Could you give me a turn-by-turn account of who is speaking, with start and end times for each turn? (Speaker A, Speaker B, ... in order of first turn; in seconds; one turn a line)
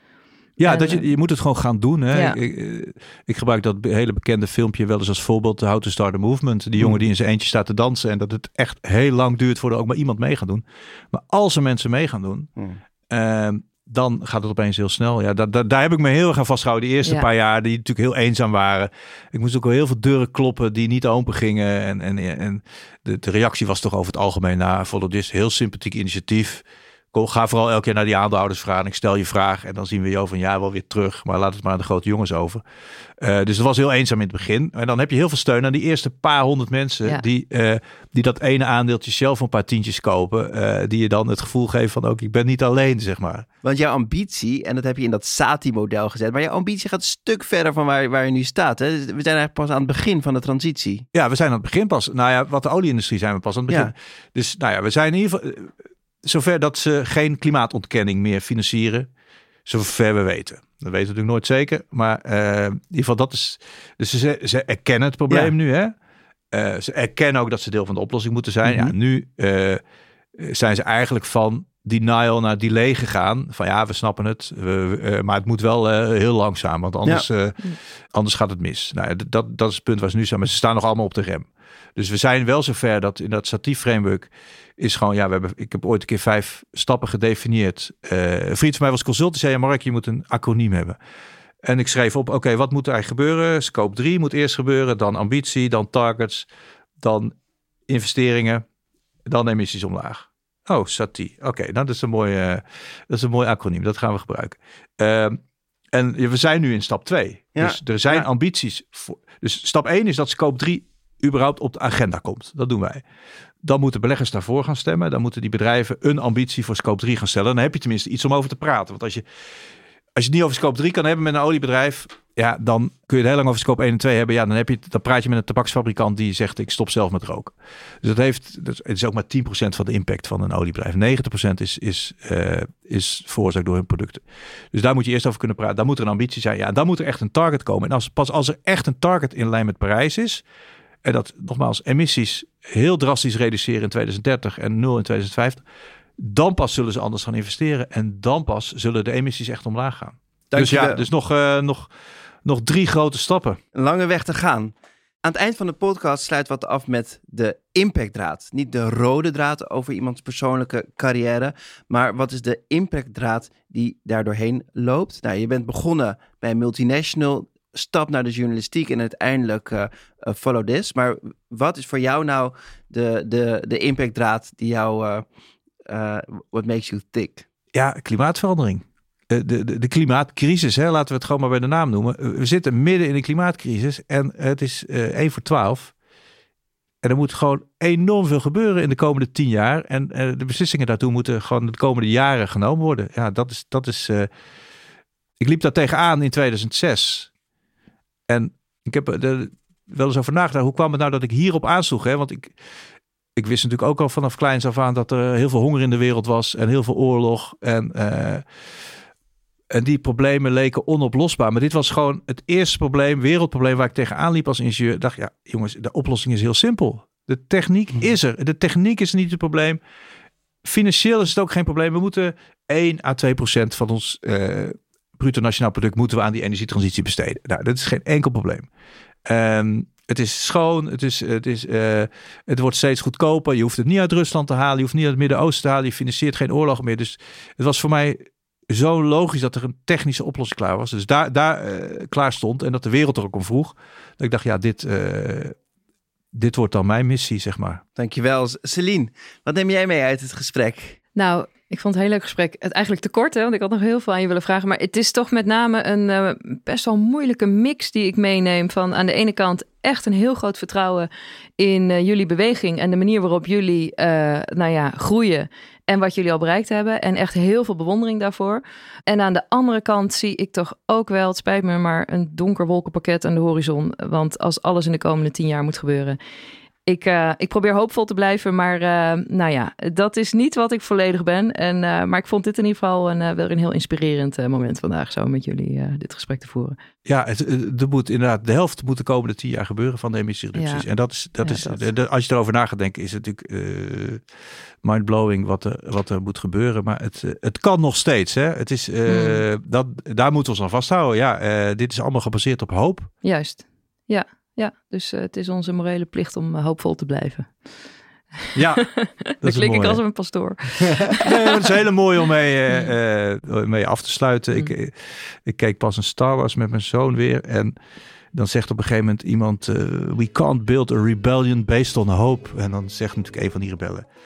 Speaker A: 0.6-12.5
Speaker B: 0.6-1.1
Speaker B: 2.1-2.4
Speaker A: 13.1-32.6
Speaker A: 33.2-43.5
Speaker C: 43.6-51.1
Speaker A: 51.1-59.1
Speaker A: 59.6-65.9
Speaker A: 66.5-69.8
Speaker C: 68.7-68.9
Speaker A: 70.4-91.0
Speaker A: 91.6-96.5
Speaker A: 97.0-97.3
Speaker A: 97.9-98.6
Speaker A: 99.3-105.4
Speaker A: 105.9-113.0
Speaker C: 107.5-108.3
Speaker A: 113.6-119.2
Speaker A: 120.2-140.4
Speaker A: 141.0-145.6
Speaker A: 146.2-151.9
Speaker C: 150.5-151.0
Speaker A: 152.4-153.6
Speaker C: 153.8-175.3
Speaker C: 175.9-177.5
Speaker A: 177.7-185.9
Speaker A: 187.0-194.3
Speaker A: 195.4-197.3
Speaker A: 198.3-202.5
Speaker A: 203.4-208.4
Speaker A: 209.7-219.8
Speaker A: 220.6-228.7
Speaker A: 229.3-245.6
Speaker A: 246.3-247.8
Speaker C: 248.0-251.0
Speaker B: 251.2-276.2
Speaker B: 276.9-286.8
Speaker A: 287.1-294.2
Speaker B: 290.6-290.9
Speaker B: 291.4-291.8
Speaker A: 294.8-303.1
Speaker B: 299.1-299.4
Speaker B: 303.2-307.5
Speaker A: 308.6-308.9
Speaker B: 308.8-311.5
Speaker A: 309.4-310.0
Speaker A: 311.2-317.8
Speaker A: 318.3-324.1